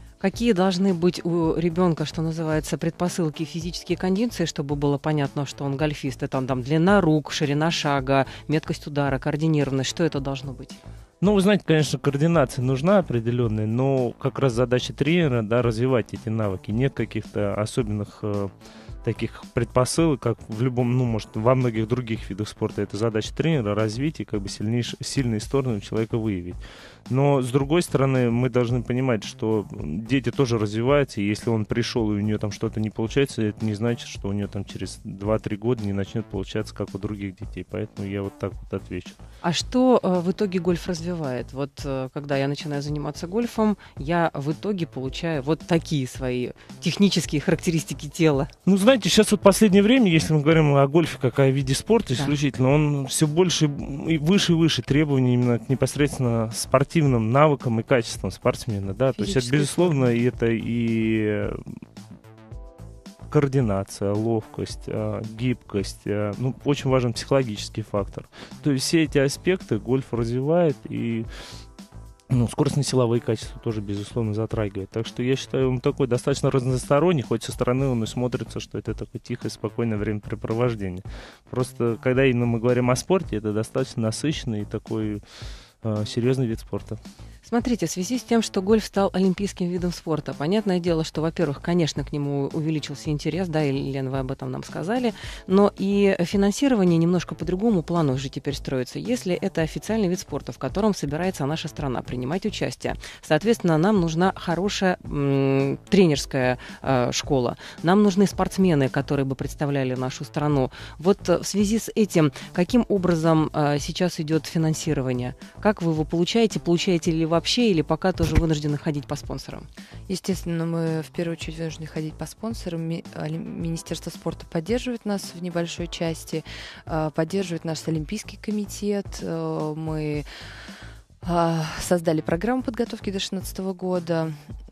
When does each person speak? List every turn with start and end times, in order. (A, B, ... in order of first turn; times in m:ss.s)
0:00.2-0:10.8 A
0:11.2-0:18.5 B
0:19.0-0:39.2 B
0:39.4-0:48.5 A
0:48.6-1:01.6 B
0:59.2-1:00.0 A
1:03.3-1:11.3 B
1:12.3-1:25.2 B
1:25.8-1:27.0 B
1:27.4-1:59.7 A
2:00.1-2:10.2 C
2:11.2-2:14.4 C